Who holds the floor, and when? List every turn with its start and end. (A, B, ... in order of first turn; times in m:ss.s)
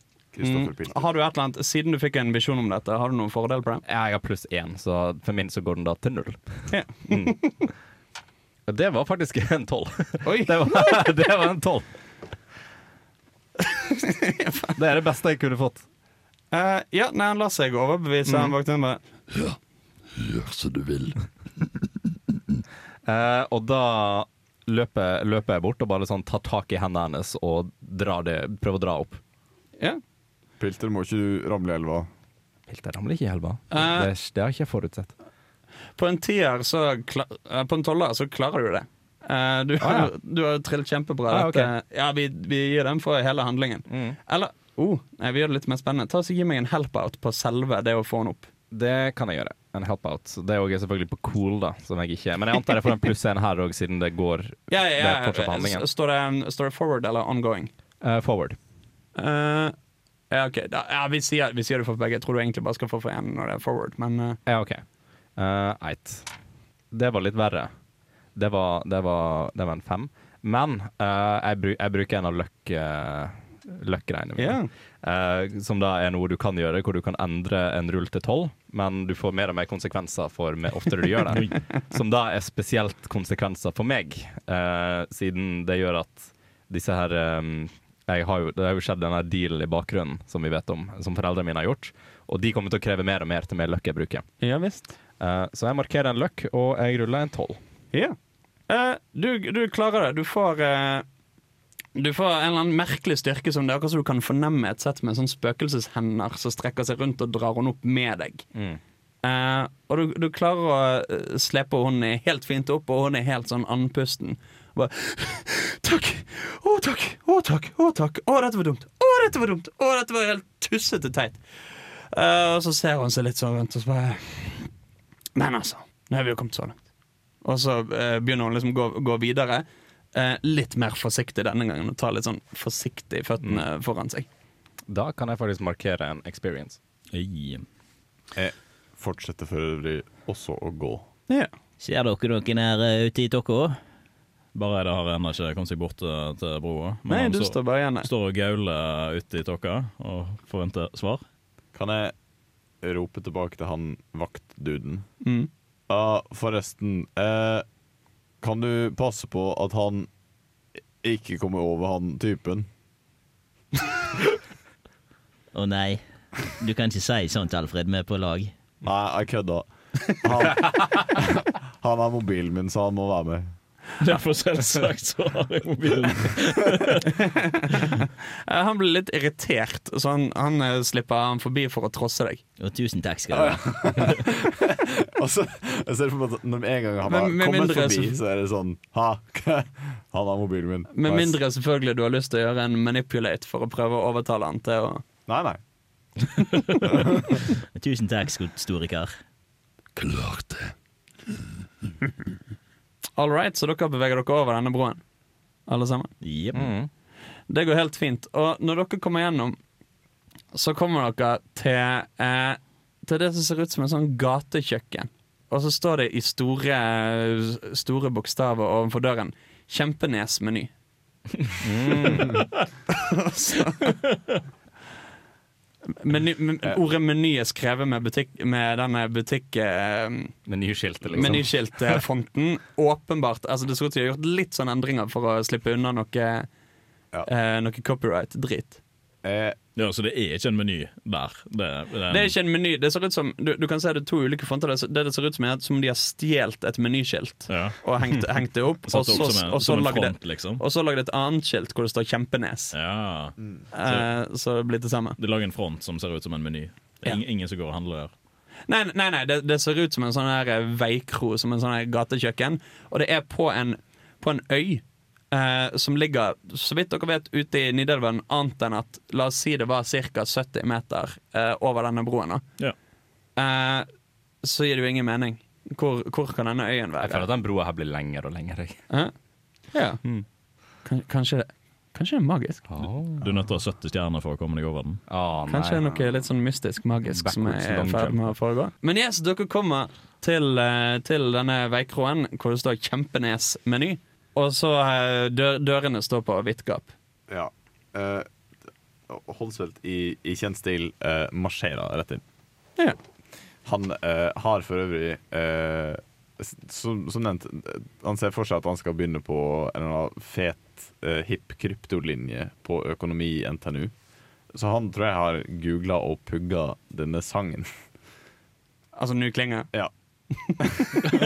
0:00.3-0:01.0 A
0:00.4-0:03.8 B
0:03.8-0:07.6 C
0:06.7-0:07.6 B
0:08.7-0:11.9 C
0:10.2-0:11.0 B
0:13.7-0:14.8 B
0:14.8-0:15.8 C
0:16.5-0:19.0 B
0:18.2-0:18.5 C
0:19.3-0:19.6 D
0:20.2-0:21.3 D
0:23.0-0:29.2 C
0:30.6-0:32.1 A
0:32.7-0:35.1 C
0:33.7-0:34.1 B
0:36.0-0:48.5 B
0:39.8-0:40.1 C
0:41.3-0:41.7 C
0:43.9-0:44.2 C
0:48.7-0:55.8 C
0:54.7-0:57.7 B
0:58.0-0:58.6 C
0:59.2-0:59.8 B
1:00.3-1:04.4 B
1:04.4-1:06.3 C
1:06.9-1:07.7 C
1:08.3-1:34.3 C
1:14.4-1:14.7 B
1:34.4-1:34.9 B
1:35.2-1:37.6 C
1:38.7-1:41.0 B
1:41.9-1:48.5 B
1:48.5-1:48.8 C
1:49.2-2:04.7 B
2:05.4-2:06.8 B
2:07.4-2:14.3 B
2:14.9-2:16.8 C
2:17.1-2:17.6 E
2:18.3-2:21.0 A
2:21.8-2:23.8 F
2:24.5-2:31.2 E
2:27.1-2:28.1 B
2:31.7-2:32.1 A
2:32.8-2:35.1 A
2:35.2-2:35.5 B
2:35.9-2:37.6 A
2:38.4-2:40.1 A
2:41.0-2:42.6 A
2:45.5-2:48.5 F
2:48.8-2:53.5 A
2:54.0-2:57.2 E
2:57.2-2:57.5 B
2:58.4-3:02.4 B
3:02.6-3:04.2 F
3:03.3-3:11.4 A
3:07.0-3:08.2 B
3:10.9-3:15.0 B
3:15.3-3:15.6 A
3:16.9-3:17.2 A
3:17.5-3:19.2 F
3:20.0-3:20.7 D
3:23.2-3:25.0 B
3:25.7-3:26.1 B
3:26.2-3:26.7 F
3:26.5-3:26.9 C
3:27.5-3:29.6 B
3:30.5-3:40.7 B
3:41.6-3:42.4 C
3:42.9-3:44.0 B
3:45.9-3:50.4 B
3:50.5-3:52.0 C
3:51.1-3:56.5 B
3:57.2-3:58.8 B
3:59.2-3:59.6 A
3:59.8-4:02.3 E
4:02.1-4:12.7 B
4:07.5-4:07.8 E
4:08.9-4:10.6 E
4:12.7-4:14.1 E
4:13.4-4:13.6 A
4:13.7-4:15.2 B
4:15.2-4:18.1 E
4:18.7-4:32.4 B
4:33.4-4:33.9 B
4:34.4-4:37.2 B
4:37.0-4:38.9 C
4:39.7-4:40.0 B
4:40.8-4:42.7 B
4:42.7-4:43.3 C
4:43.2-4:45.0 E
4:45.1-4:46.1 C
4:45.5-4:56.9 B
4:47.0-4:48.3 C
4:57.3-4:58.3 A
4:59.1-5:02.2 A
5:03.6-5:13.9 A
5:14.5-5:17.8 A
5:19.0-5:19.7 B
5:20.4-5:21.0 B
5:20.6-5:20.9 A